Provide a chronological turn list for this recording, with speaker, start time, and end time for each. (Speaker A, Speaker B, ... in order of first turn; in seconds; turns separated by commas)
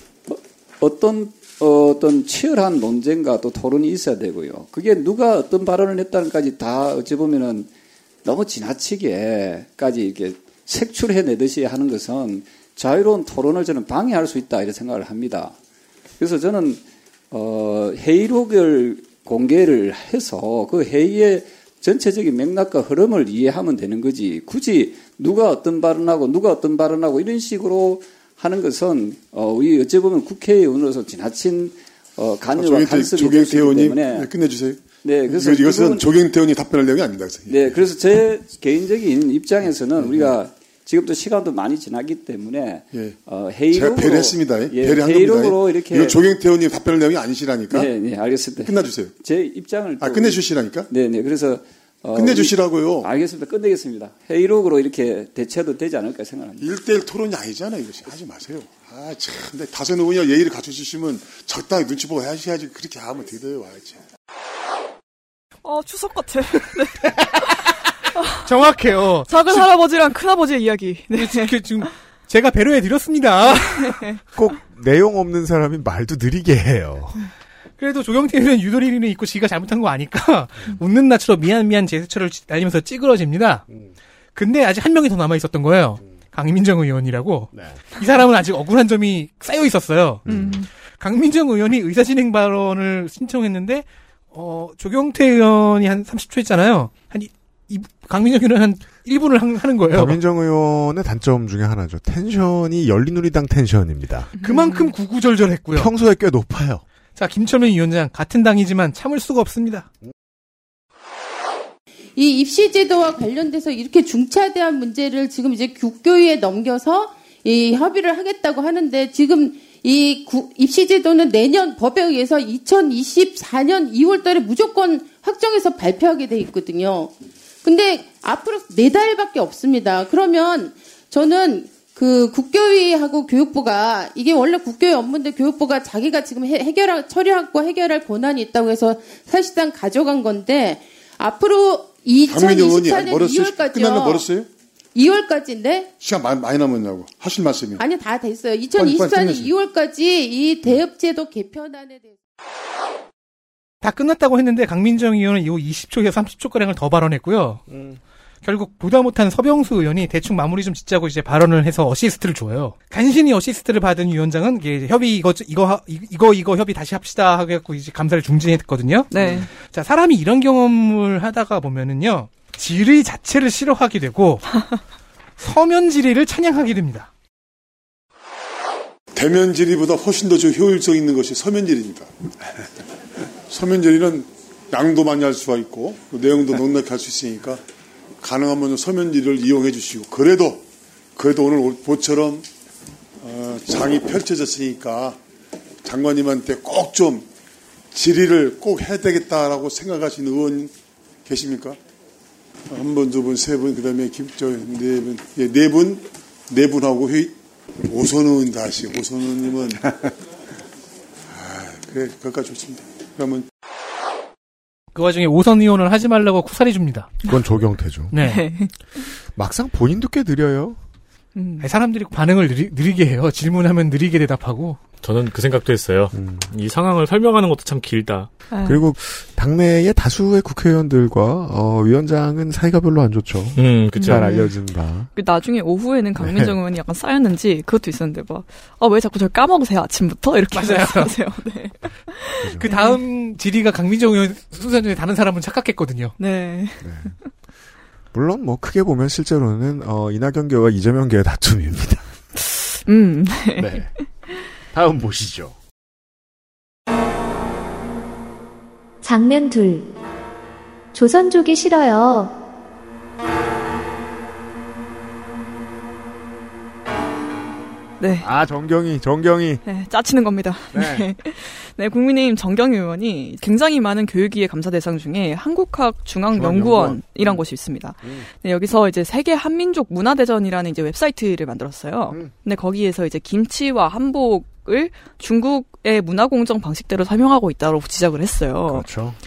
Speaker A: 0.3-7.7, Speaker A: 8.2-15.6, Speaker A: 16.2-34.3, Speaker B: 32.5-37.9, Speaker A: 35.0-36.1, Speaker A: 37.5-46.2, Speaker B: 40.0-40.3, Speaker B: 42.9-43.2, Speaker B: 43.7-47.9, Speaker A: 47.7-56.7, Speaker B: 48.6-49.1, Speaker B: 50.0-50.9, Speaker B: 52.1-53.1, Speaker B: 56.6-64.0, Speaker C: 65.6-68.5, Speaker D: 68.4-69.7, Speaker C: 69.3-71.9, Speaker D: 71.1-74.0, Speaker C: 73.5-74.2, Speaker E: 74.3-77.1, Speaker D: 77.8-83.7, Speaker D: 84.3-90.3, Speaker E: 87.5-87.8, Speaker E: 90.2-90.6, Speaker C: 90.3-90.7, Speaker D: 91.0-100.2, Speaker E: 99.9-104.3, Speaker C: 104.4-104.9, Speaker D: 104.4-105.9, Speaker E: 105.7-106.8, Speaker D: 107.2-109.9, Speaker F: 112.2-144.3, Speaker B: 142.3-144.5, Speaker F: 144.9-145.9, Speaker B: 146.0-147.8, Speaker F: 147.8-152.2, Speaker B: 148.8-149.5, Speaker D: 153.8-157.6, Speaker E: 157.7-158.0, Speaker D: 158.4-174.5, Speaker C: 169.1-169.5, Speaker E: 169.1-169.5, Speaker D: 175.4-177.1, Speaker B: 179.1-182.1, Speaker B: 183.5-187.6, Speaker B: 188.2-192.5, Speaker B: 193.2-195.2, Speaker B: 195.8-197.3, Speaker B: 197.9-200.7, Speaker B: 201.2-201.8, Speaker B: 202.7-210.1, Speaker B: 211.3-213.4, Speaker D: 214.9-217.1, Speaker E: 217.3-218.1, Speaker D: 218.1-218.4, Speaker C: 218.2-218.8, Speaker E: 219.3-220.8, Speaker C: 221.3-221.7, Speaker D: 221.6-224.8, Speaker G: 225.0-228.3, Speaker E: 226.1-226.5, Speaker C: 228.5-228.8, Speaker E: 228.6-235.1, Speaker G: 233.6-234.3, Speaker C: 234.0-234.5, Speaker C: 235.1-243.0, Speaker E: 236.2-236.6, Speaker D: 240.5-241.1, Speaker E: 242.4-242.7, Speaker D: 242.6-246.1, Speaker C: 246.2-247.1, Speaker E: 246.8-247.1, Speaker E: 248.1-252.1, Speaker C: 252.4-253.9, Speaker E: 253.6-253.9, Speaker E: 254.7-255.6, Speaker H: 259.0-259.9, Speaker H: 260.9-262.4, Speaker C: 268.0-268.3, Speaker E: 268.2-269.6, Speaker C: 269.6-288.9, Speaker E: 270.7-271.1, Speaker E: 276.3-277.4, Speaker E: 278.0-278.3, Speaker E: 288.6-289.2